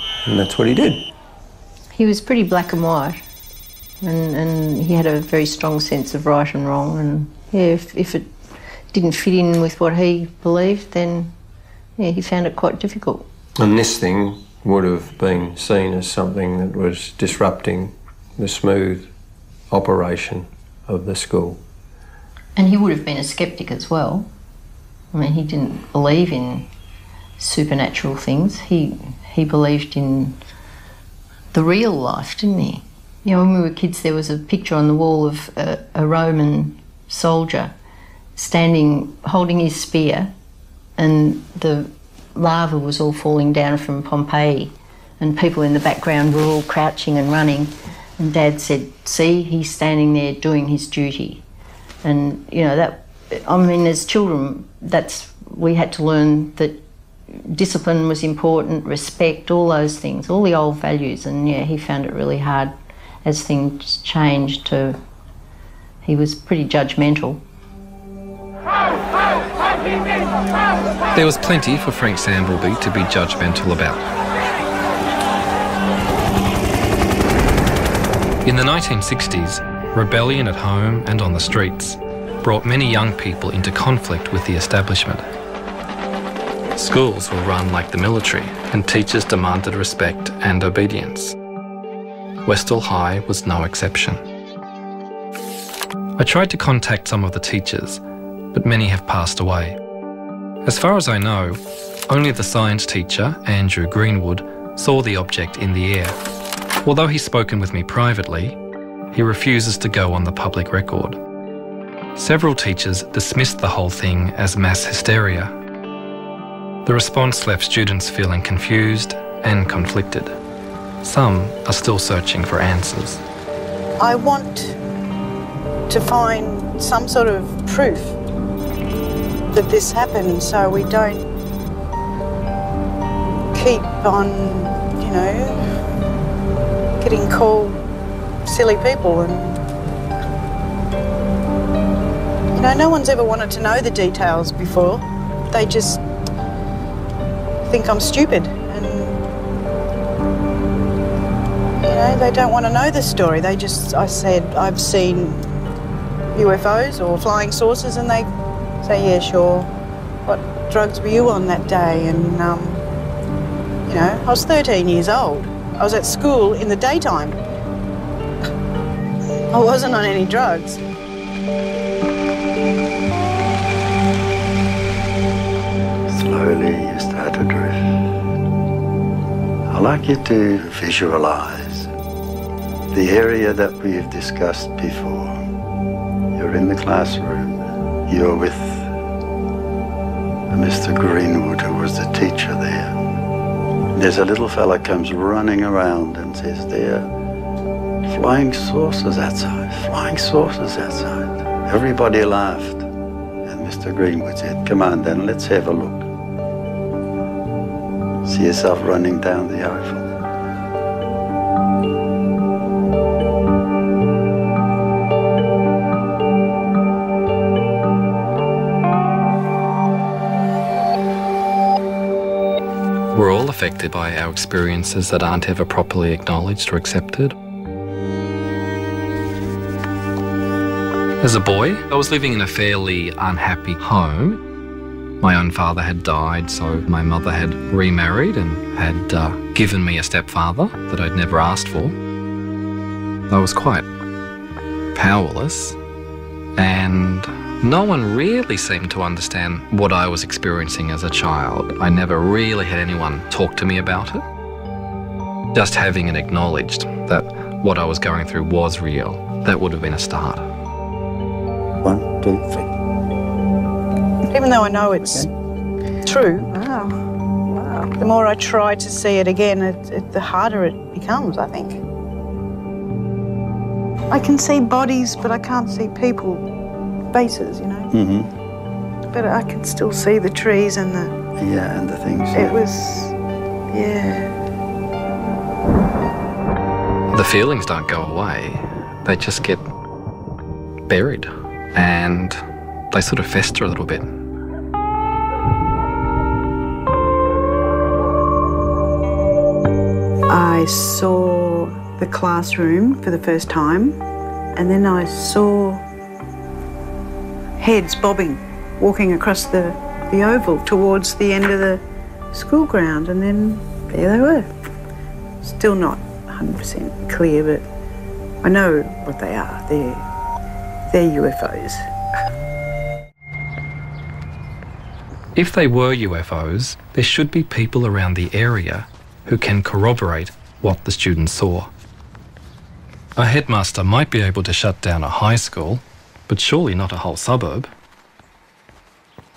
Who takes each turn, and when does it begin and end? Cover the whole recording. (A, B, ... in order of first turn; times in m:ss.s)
0:00.2-0:01.1 A
0:01.9-0:03.2 B
0:04.0-0:08.3 B
0:08.9-0:11.3 B
0:12.0-0:13.3 B
0:13.6-0:19.1 A
0:19.7-0:21.6 A
0:22.6-0:24.3 B
0:25.1-0:26.7 B
0:27.4-0:30.4 B
0:31.5-0:37.7 B
0:38.4-0:40.3 B
0:41.0-0:51.4 B
0:52.0-1:05.0 B
1:06.0-1:07.4 B
1:11.1-1:14.0 C
1:18.4-1:25.2 C
1:26.7-1:31.3 C
1:32.4-1:34.2 C
1:36.2-1:38.0 C
1:38.5-1:39.8 C
1:40.6-1:46.2 C
1:46.8-1:48.6 C
1:49.1-1:51.2 C
1:52.2-1:55.5 C
1:56.8-2:00.4 C
2:01.0-2:03.2 C
2:04.0-2:04.8 D
2:05.9-2:08.2 D
2:09.5-2:11.2 D
2:13.5-2:15.6 D
2:17.0-2:17.8 D
2:18.4-2:19.6 D
2:22.5-2:26.0 D
2:27.6-2:29.2 D
2:31.8-2:35.5 D
2:36.3-2:38.3 D
2:38.8-2:39.7 D
2:40.2-2:42.8 D
2:43.9-2:47.4 D
2:49.5-2:50.8 D
2:56.1-2:57.8 E
2:59.7-3:01.9 E
3:02.9-3:05.4 E
3:06.3-3:08.9 E
3:10.5-3:12.9 E
3:13.9-3:17.1 E
3:18.0-3:22.8 E
3:23.4-3:26.1 E
3:28.2-3:30.1 E
3:43.1-3:47.3 C
3:51.2-3:54.4 C
3:55.2-4:01.9 C
4:03.3-4:03.9 C
4:04.9-4:05.8 C
4:06.6-4:14.2 C
4:15.5-4:20.4 C
4:21.8-4:22.7 E
4:24.3-4:25.2 D
4:25.0-4:25.3 E
4:26.0-4:27.0 D
4:27.5-4:31.8 D
4:34.1-4:36.4 D
4:37.1-4:37.9 D
4:37.9-4:38.3 E
4:39.1-4:41.1 D
4:41.4-4:42.6 E
4:42.3-4:43.2 D
4:43.7-4:44.3 D
4:47.1-4:49.6 C
4:50.9-4:52.4 C
4:52.9-4:54.1 C
5:00.3-5:04.0 D
5:04.5-5:05.8 D
5:07.6-5:14.5 D
5:15.4-5:17.7 D
5:18.4-5:20.0 D
5:20.9-5:21.8 D
5:25.4-5:31.7 C
5:33.2-5:37.7 C